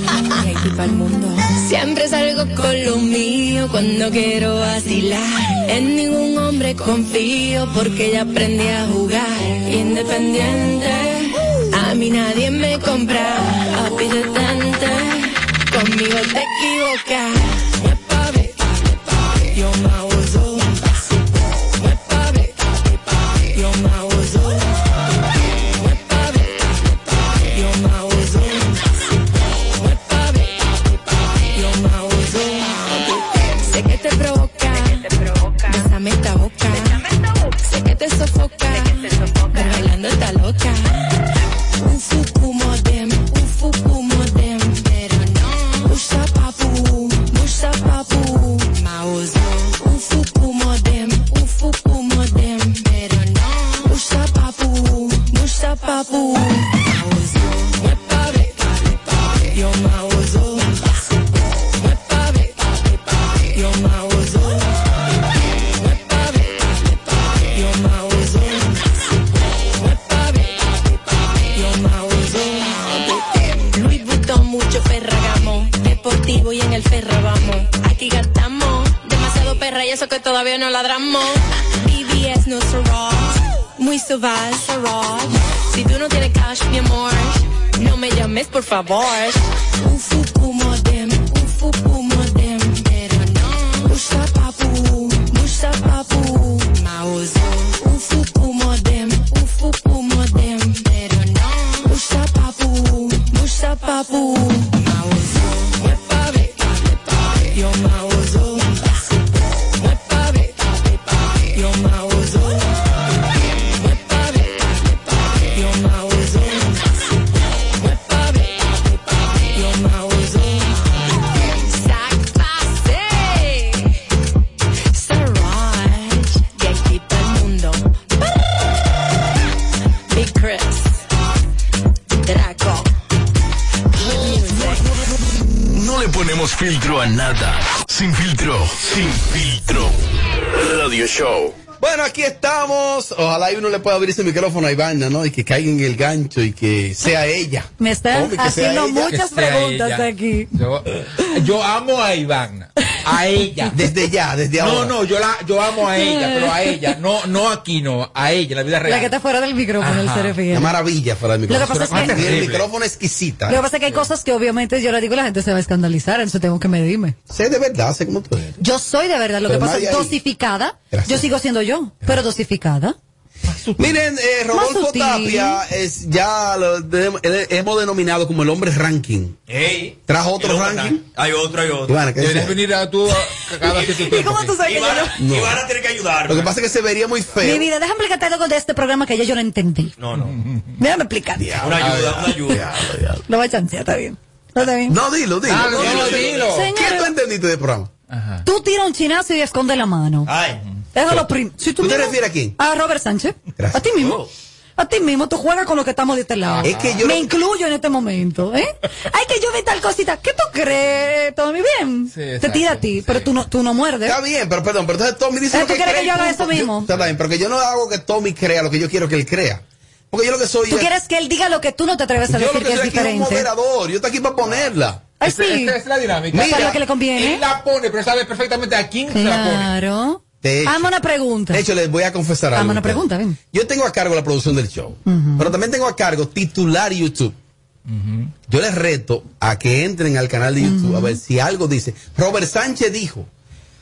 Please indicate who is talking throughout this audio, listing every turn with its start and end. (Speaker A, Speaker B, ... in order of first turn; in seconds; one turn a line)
Speaker A: 0.3-24.8
Speaker A: 25.5-28.8
Speaker A: 29.6-37.1
Speaker A: 37.6-41.1
Speaker A: 41.8-64.8
Speaker A: 65.6-108.9
Speaker A: 109.7-112.8
Speaker A: 113.6-116.9
Speaker A: 117.6-124.0
Speaker A: 124.9-128.0
Speaker A: 130.1-131.1
Speaker A: 132.2-132.9
Speaker A: 133.9-134.9
Speaker B: 135.7-139.9
Speaker B: 140.5-141.5
Speaker C: 141.8-149.1
Speaker D: 147.8-150.5
Speaker E: 149.0-153.7
Speaker C: 153.7-154.9
Speaker E: 154.6-159.1
Speaker D: 155.9-156.8
Speaker D: 158.8-160.7
Speaker E: 159.8-160.4
Speaker C: 160.5-163.6
Speaker D: 161.5-162.4
Speaker E: 161.9-162.7
Speaker D: 163.5-167.2
Speaker C: 167.3-168.6
Speaker D: 168.6-172.9
Speaker C: 169.4-170.2
Speaker C: 170.9-171.3
Speaker E: 173.5-173.9
Speaker C: 173.8-179.3
Speaker D: 174.5-175.6
Speaker F: 179.5-182.1
Speaker C: 180.1-181.0
Speaker C: 181.9-182.6
Speaker E: 182.2-184.6
Speaker F: 183.7-186.5
Speaker D: 183.9-185.2
Speaker C: 185.2-185.6
Speaker C: 186.3-187.7
Speaker D: 187.4-189.9
Speaker F: 190.0-190.4
Speaker E: 190.2-190.7
Speaker D: 190.8-191.7
Speaker C: 191.4-193.2
Speaker F: 191.6-192.6
Speaker E: 191.8-192.2
Speaker D: 193.3-195.0
Speaker C: 194.8-197.9
Speaker E: 195.5-196.7
Speaker F: 195.7-196.5
Speaker D: 196.3-197.1
Speaker E: 198.1-198.4
Speaker D: 198.4-200.3
Speaker F: 200.2-200.6
Speaker D: 200.9-204.2
Speaker C: 201.8-202.6
Speaker C: 203.6-204.0
Speaker F: 204.0-204.3
Speaker D: 204.8-214.2
Speaker E: 206.5-207.1
Speaker C: 206.6-207.3
Speaker E: 212.1-213.2
Speaker C: 214.0-220.9
Speaker D: 215.5-216.9
Speaker D: 220.7-223.5
Speaker C: 222.2-225.0
Speaker D: 225.2-225.8
Speaker E: 225.2-229.7
Speaker C: 226.3-226.8
Speaker D: 226.3-227.4
Speaker D: 229.1-231.6
Speaker C: 230.4-230.9
Speaker C: 231.5-237.3
Speaker D: 232.5-233.4
Speaker D: 235.1-235.5
Speaker E: 237.9-238.3
Speaker C: 238.5-243.3
Speaker D: 240.6-241.2